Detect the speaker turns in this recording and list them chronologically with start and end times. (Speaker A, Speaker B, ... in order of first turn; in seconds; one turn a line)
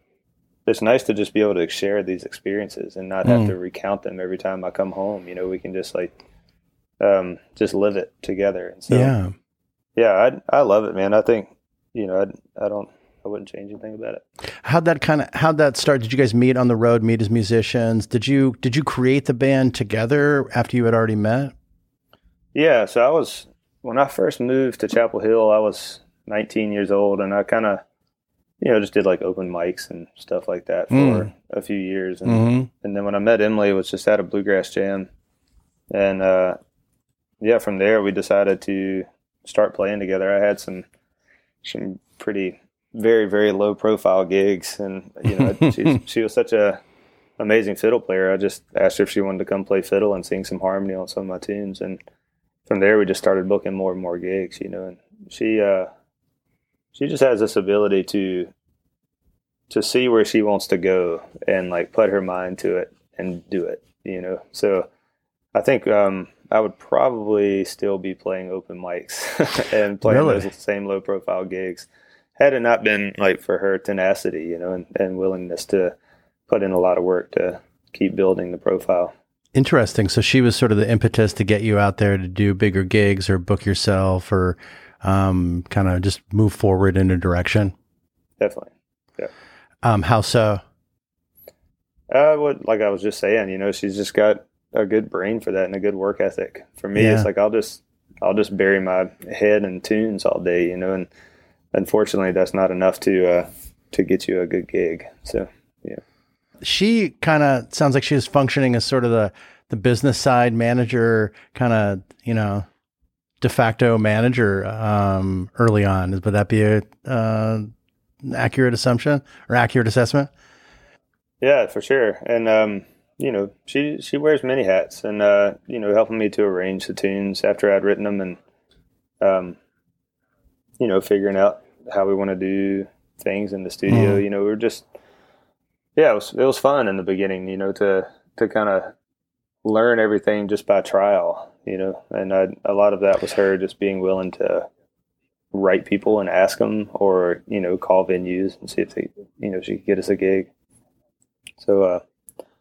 Speaker A: 0.7-6.1
Speaker B: 3.2-3.5
Speaker A: 7.0-9.1
Speaker B: 8.9-9.3
Speaker A: 9.9-14.2
Speaker B: 14.6-21.5
Speaker A: 22.5-27.8
Speaker A: 28.6-35.1
Speaker B: 30.9-31.3
Speaker B: 32.2-32.7
Speaker A: 35.9-36.6
Speaker A: 37.4-40.9
Speaker A: 41.6-46.8
Speaker A: 47.4-52.0
Speaker A: 52.7-55.9
Speaker A: 56.9-58.5
Speaker A: 59.7-64.9
Speaker A: 65.5-75.9
Speaker B: 70.0-70.5
Speaker A: 76.5-79.1
Speaker B: 79.5-87.7
Speaker A: 88.4-89.3
Speaker B: 89.8-90.6
Speaker A: 92.1-101.1
Speaker B: 96.9-97.3
Speaker A: 101.7-106.0
Speaker B: 106.6-112.7
Speaker B: 113.4-117.7
Speaker B: 118.2-120.3
Speaker A: 121.4-128.4
Speaker A: 129.2-129.6
Speaker A: 130.8-134.8
Speaker B: 133.9-134.2
Speaker A: 135.9-138.9
Speaker A: 139.6-144.7
Speaker A: 145.5-150.5
Speaker A: 151.6-152.0